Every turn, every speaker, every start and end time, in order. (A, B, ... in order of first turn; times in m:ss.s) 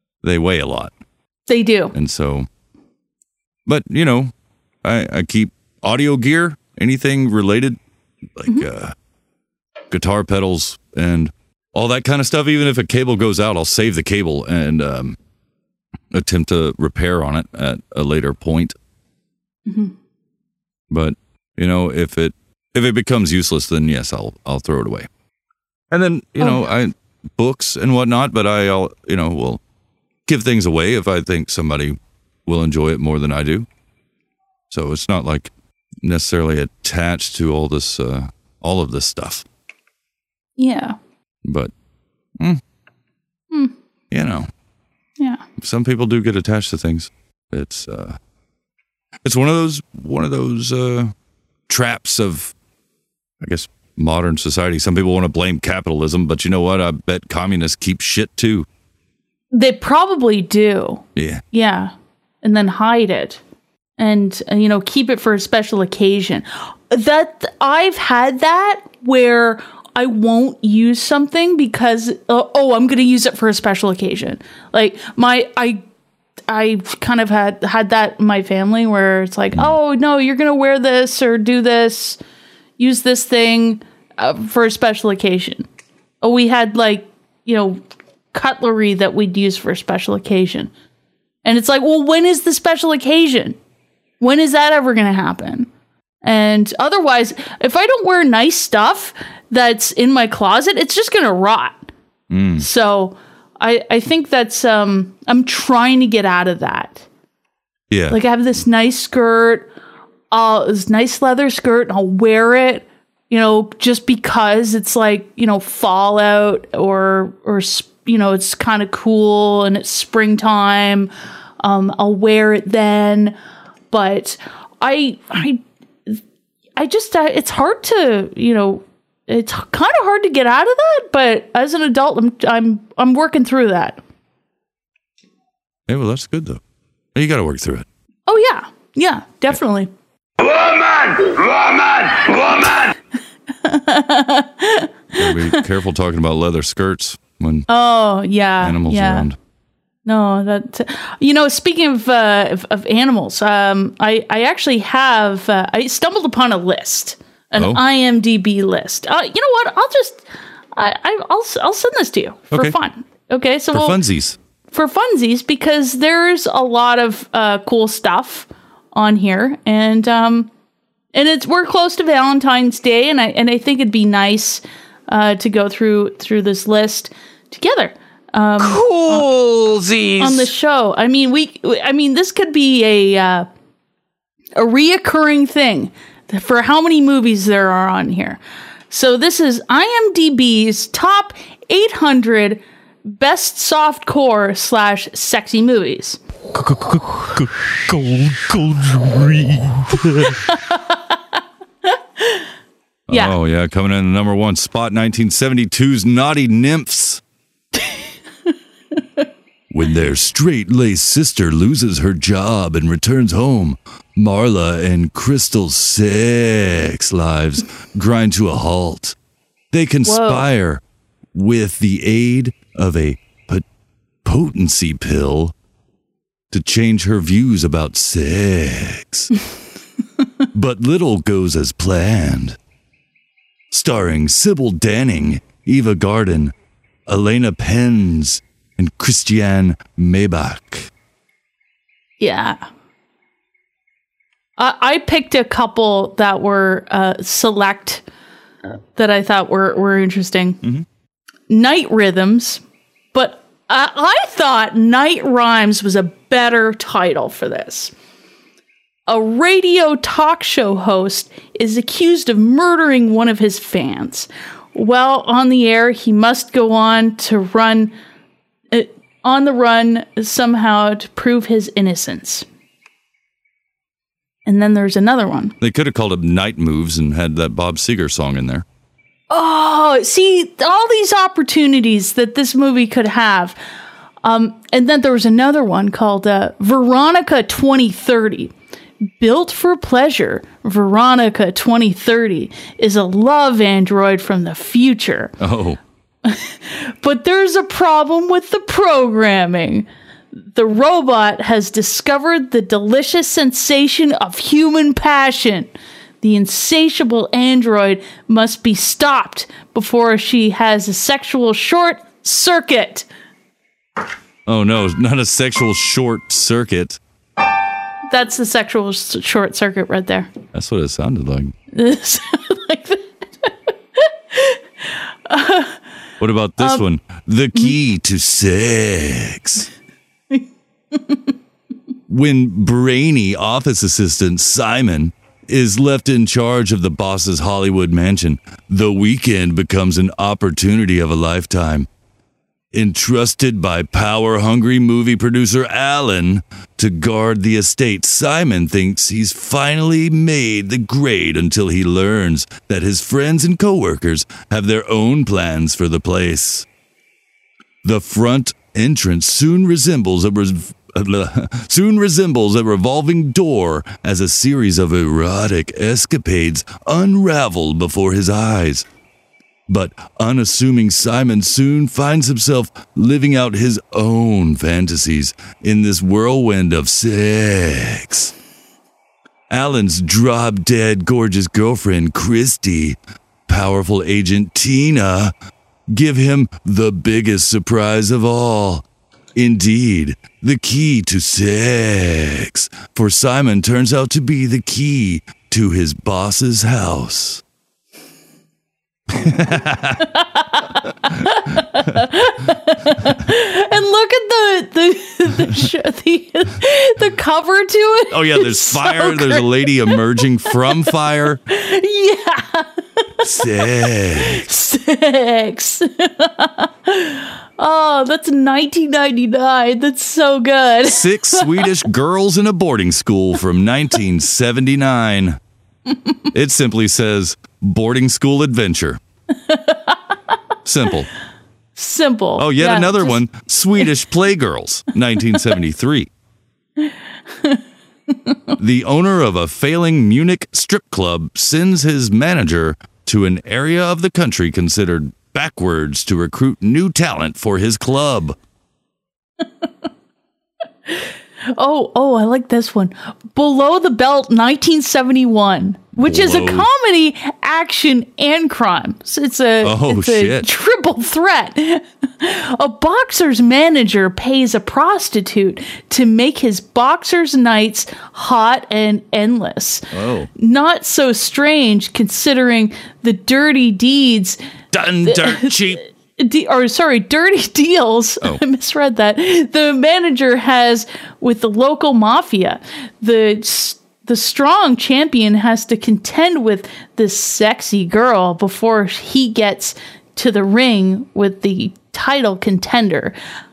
0:00.2-0:00.9 A
0:01.5-0:01.9 B
0:01.9-0:02.5 A
0:03.6-0:04.3 A
0:04.8-0:07.8 A
0:08.4-0:08.9 A
0:09.9-0:15.2 A
0:16.1-0:18.8 A
0:19.7-0:19.9 B
0:20.9-0:25.1 A
0:25.9-0:29.6 A
0:26.4-0:26.7 B
0:30.3-0:33.7 A
0:34.7-0:35.5 A
0:36.0-0:39.4 A
0:40.6-0:41.0 B
0:41.4-0:41.7 A
0:44.1-0:44.5 A
0:45.6-0:48.2 A
0:49.2-0:51.1 A
0:51.7-0:52.5 A
0:53.4-0:58.7 A
0:59.5-1:03.4 B
1:01.2-1:01.4 A
1:04.0-1:15.8 B
1:16.5-1:22.2 B
1:22.8-1:25.6 B
1:26.2-1:27.8 B
1:28.3-1:30.7 B
1:31.4-1:33.6 B
1:34.2-1:35.7 B
1:36.2-1:41.8 B
1:42.3-1:42.6 A
1:42.6-1:47.1 B
1:47.9-1:48.2 A
1:48.1-1:49.7 B
1:50.3-2:03.4 B
2:03.9-2:06.2 B
2:06.8-2:14.0 B
2:15.9-2:16.6 A
2:17.1-2:17.9 A
2:18.3-2:19.9 B
2:23.6-2:25.6 B
2:25.2-2:27.7 A
2:27.7-2:29.3 B
2:28.6-2:29.4 A
2:30.1-2:44.0 B
2:37.6-2:37.8 A
2:43.7-2:44.4 A
2:44.7-2:50.5 B
2:51.1-2:59.3 B
2:58.6-3:00.4 A
3:00.2-3:03.5 B
3:04.6-3:08.4 B
3:08.9-3:16.2 B
3:16.6-3:20.4 A
3:20.4-3:21.0 B
3:23.1-3:27.2 A
3:23.1-3:23.4 B
3:29.7-3:39.2 A
3:39.7-3:40.8 A
3:40.0-3:40.5 B
3:41.3-3:43.6 A
3:44.2-3:45.5 A
3:46.5-3:49.3 A
3:50.5-3:52.6 A
3:53.7-3:56.5 A
3:57.1-4:00.9 A
4:02.2-4:02.6 B
4:04.6-4:08.0 B
4:09.0-4:10.6 B
4:11.5-4:12.6 B
4:13.1-4:17.9 B
4:19.1-4:27.9 B
4:28.7-4:32.4 B
4:34.4-4:35.6 B
4:35.6-4:38.6 A
4:39.3-4:43.6 B
4:44.2-4:48.5 B
4:49.2-4:55.3 B
4:55.4-4:55.8 A
4:56.3-4:59.9 B
5:00.4-5:13.1 B
5:14.4-5:17.0 A
5:18.1-5:20.3 B
5:20.5-5:21.6 A
5:21.7-5:23.5 B
5:24.3-5:24.6 B
5:25.3-5:25.8 B
5:26.2-5:29.7 A
5:32.1-5:41.9 A
5:42.7-5:56.6 A
5:57.8-6:08.8 A
6:09.7-6:18.3 A
6:19.5-6:25.3 A
6:25.9-6:37.4 A
6:39.1-6:40.0 A
6:40.2-6:49.9 B
6:48.1-6:51.4 A
6:51.5-6:52.7 B
6:53.2-6:54.4 A
6:53.2-6:53.6 B
6:54.2-7:01.6 B
7:00.8-7:05.4 A
7:06.3-7:09.0 A
7:09.4-7:10.0 B
7:10.6-7:11.1 A
7:11.8-7:13.2 B
7:12.4-7:16.1 A
7:16.8-7:18.5 B
7:18.6-7:28.4 A
7:30.9-7:49.9 B
7:36.0-7:36.7 A
7:39.6-7:40.5 A
7:49.9-7:50.3 A
7:50.4-7:54.4 B
7:54.7-7:55.8 A
7:55.1-8:13.2 B